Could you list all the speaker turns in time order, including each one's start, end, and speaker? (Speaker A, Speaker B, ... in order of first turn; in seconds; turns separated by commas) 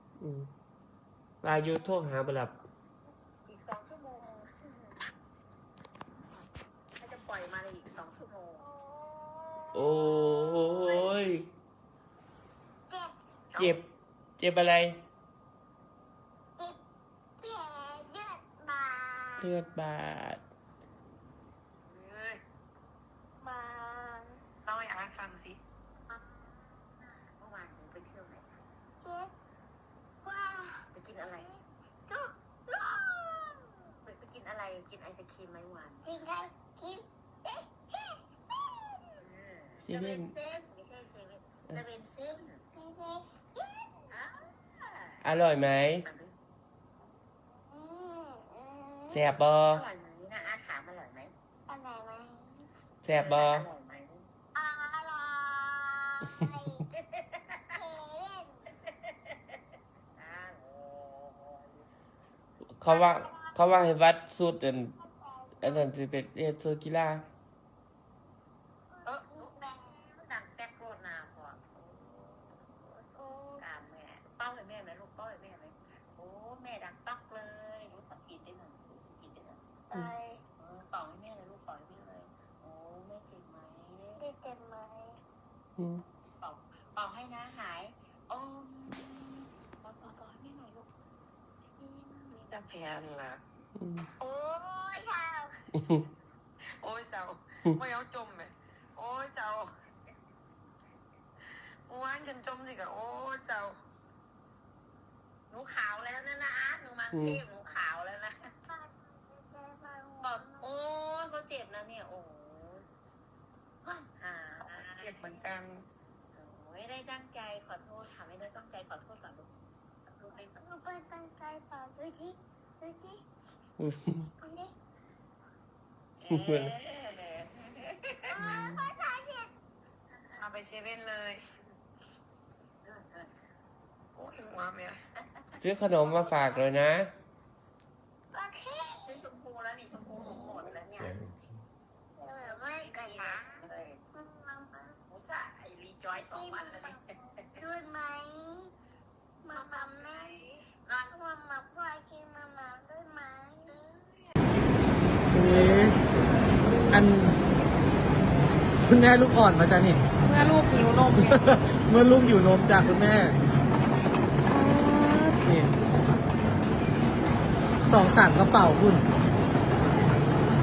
Speaker A: 0.2-0.5, Speaker A: 1.4-2.5, Speaker B: 3.5-4.9, Speaker B: 7.0-8.7, Speaker C: 8.6-11.1, Speaker A: 9.7-11.5, Speaker C: 12.9-13.2, Speaker D: 13.5-13.8, Speaker A: 13.6-13.9, Speaker A: 14.4-15.0, Speaker C: 17.4-19.5, Speaker A: 19.4-20.4, Speaker B: 21.9-22.4, Speaker C: 23.4-24.4, Speaker D: 24.6-25.6, Speaker B: 26.1-28.6, Speaker C: 29.0-29.3, Speaker C: 30.2-33.8, Speaker B: 30.9-31.5, Speaker B: 34.1-36.1, Speaker C: 36.0-39.2, Speaker B: 39.2-42.6, Speaker A: 39.8-40.3, Speaker C: 42.7-44.0, Speaker B: 44.1-45.5, Speaker A: 45.2-46.1, Speaker B: 46.0-46.4, Speaker C: 47.5-49.3, Speaker A: 49.1-49.9, Speaker B: 49.7-51.3, Speaker C: 51.7-52.7, Speaker A: 53.0-53.7, Speaker B: 53.1-54.3, Speaker C: 54.5-56.9, Speaker B: 57.1-57.6, Speaker C: 57.7-58.7, Speaker B: 60.2-61.8, Speaker A: 62.8-65.0, Speaker C: 62.9-63.5, Speaker C: 65.0-65.9, Speaker A: 65.6-67.3, Speaker C: 68.9-70.1, Speaker B: 69.3-73.0, Speaker C: 73.1-73.7, Speaker B: 73.6-79.6, Speaker C: 79.9-80.4, Speaker B: 80.6-84.2, Speaker C: 84.2-85.2, Speaker A: 85.8-86.0, Speaker B: 86.4-90.9, Speaker B: 91.8-92.6, Speaker D: 92.5-93.4, Speaker A: 93.8-94.1, Speaker C: 94.2-95.6, Speaker D: 96.8-99.7, Speaker D: 101.9-103.8, Speaker B: 105.5-108.5, Speaker A: 107.1-107.4, Speaker C: 108.7-110.8, Speaker B: 110.2-112.9, Speaker B: 114.1-115.1, Speaker D: 114.7-115.8, Speaker B: 116.3-119.5, Speaker B: 120.1-120.6, Speaker C: 120.5-123.2, Speaker A: 123.8-124.2, Speaker C: 124.4-124.7, Speaker B: 126.2-128.4, Speaker A: 126.3-126.7, Speaker C: 128.3-129.5, Speaker A: 128.4-128.8, Speaker D: 130.4-131.4, Speaker B: 132.8-133.3, Speaker D: 134.2-135.0, Speaker A: 135.6-137.1, Speaker B: 136.1-136.5, Speaker C: 138.3-139.2, Speaker B: 139.0-141.2, Speaker C: 142.2-145.0, Speaker B: 142.3-144.1, Speaker B: 145.1-147.5, Speaker C: 146.3-148.7, Speaker C: 149.4-150.3, Speaker D: 149.5-150.6, Speaker B: 150.9-151.2, Speaker C: 151.1-153.8, Speaker D: 153.7-154.3, Speaker E: 155.3-155.9, Speaker E: 156.9-157.3, Speaker E: 158.9-160.0, Speaker F: 160.2-161.6, Speaker E: 161.9-163.3, Speaker F: 164.5-165.5, Speaker E: 167.9-169.0